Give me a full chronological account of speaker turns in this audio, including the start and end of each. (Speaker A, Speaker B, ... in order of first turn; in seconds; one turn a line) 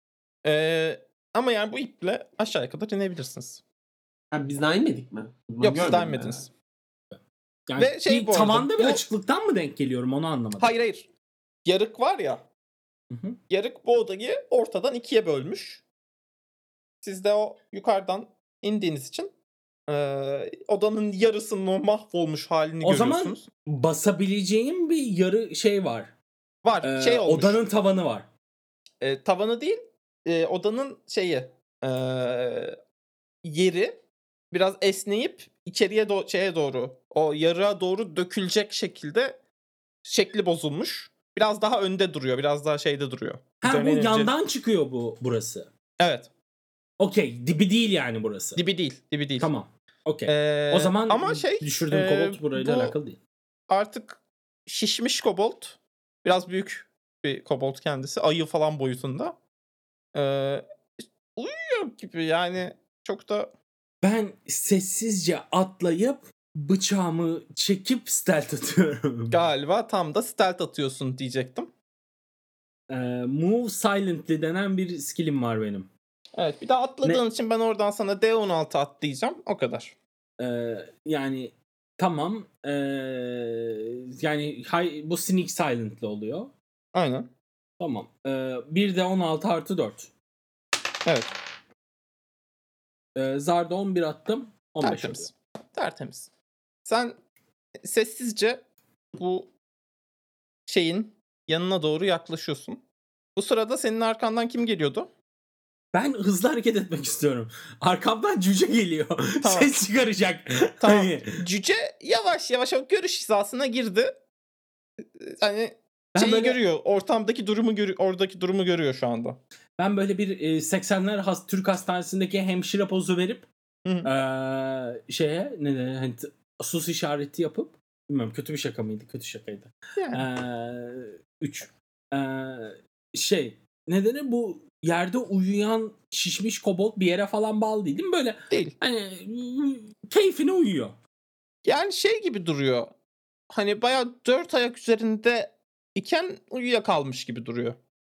Speaker A: 0.4-3.6
Speaker B: 4.3-6.4
Speaker A: 5.6-6.5
Speaker C: 7.7-10.7
Speaker A: 7.8-9.0
Speaker A: 10.6-11.1
Speaker A: 11.6-12.4
Speaker C: 13.1-13.4
Speaker A: 13.5-15.8
Speaker A: 17.0-19.3
Speaker A: 19.9-23.4
Speaker C: 22.8-26.1
Speaker A: 26.6-27.6
Speaker C: 26.8-28.3
Speaker A: 29.0-32.8
Speaker A: 33.4-34.0
Speaker A: 34.5-39.4
Speaker A: 40.0-44.3
Speaker C: 43.6-45.7
Speaker A: 46.0-46.3
Speaker C: 47.0-48.6
Speaker A: 48.5-49.5
Speaker C: 49.4-53.2
Speaker A: 50.3-52.9
Speaker A: 53.7-59.4
Speaker A: 60.1-60.6
Speaker A: 61.4-63.5
Speaker C: 64.0-69.4
Speaker A: 69.3-71.7
Speaker C: 72.9-75.9
Speaker A: 76.3-80.0
Speaker C: 80.4-86.5
Speaker A: 86.9-87.3
Speaker C: 87.8-90.1
Speaker A: 91.0-91.3
Speaker C: 93.1-95.3
Speaker A: 94.8-96.3
Speaker A: 96.8-97.2
Speaker A: 97.8-98.6
Speaker A: 99.2-99.5
Speaker A: 100.7-102.8
Speaker A: 103.3-105.1
Speaker C: 105.9-111.3
Speaker A: 109.4-109.7
Speaker A: 110.8-114.2
Speaker A: 115.0-119.4
Speaker C: 116.2-116.6
Speaker C: 119.8-123.5
Speaker A: 123.8-124.1
Speaker C: 124.0-140.9
Speaker A: 130.0-130.2
Speaker A: 138.5-138.7
Speaker A: 141.6-142.9
Speaker A: 143.5-147.8